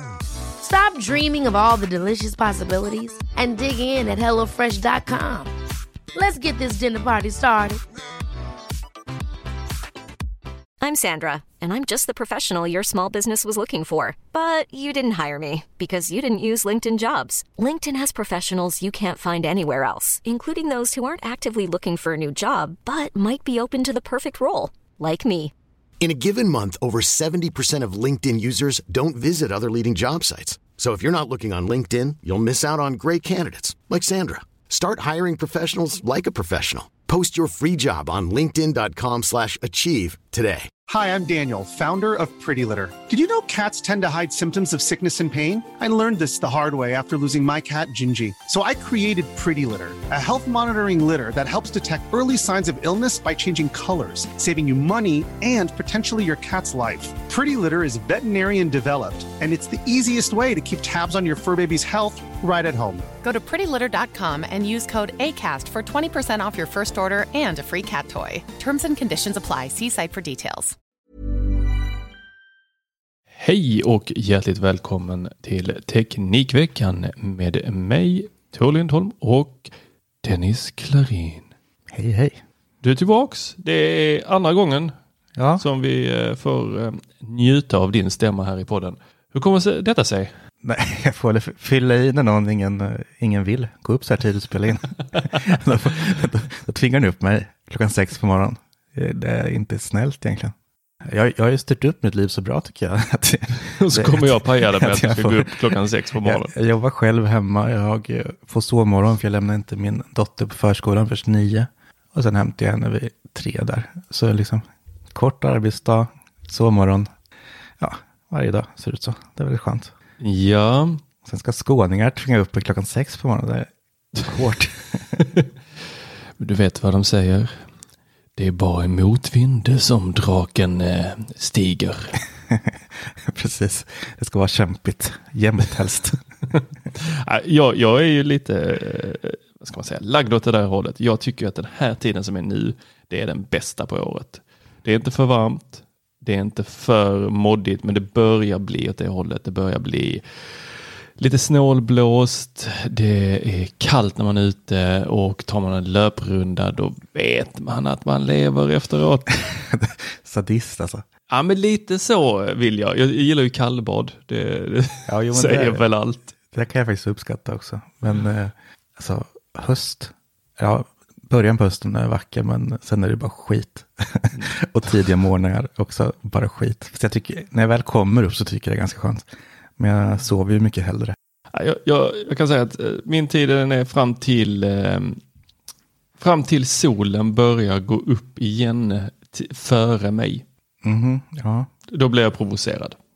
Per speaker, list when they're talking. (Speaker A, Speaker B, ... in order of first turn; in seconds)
Speaker A: 0.6-5.5, 6.1-7.8
Speaker B: 10.8-25.5
Speaker C: 26.0-40.7
Speaker D: 40.9-63.0
Speaker E: 63.2-70.8
Speaker F: 73.4-79.7, 80.2-81.5, 82.8-84.9, 85.6-90.3, 103.8-106.5, 120.2-121.0, 126.4-127.6, 128.4-132.2, 137.0-150.2, 151.2-159.4, 161.3-166.3, 181.5-185.2, 186.2-190.4, 191.9-193.0
Speaker G: 81.9-82.4, 85.4-85.6, 90.6-117.1, 117.8-119.9, 121.2-123.7, 124.2-125.2, 132.5-136.2, 159.7-161.1, 165.1-165.8, 166.5-181.2, 190.8-191.7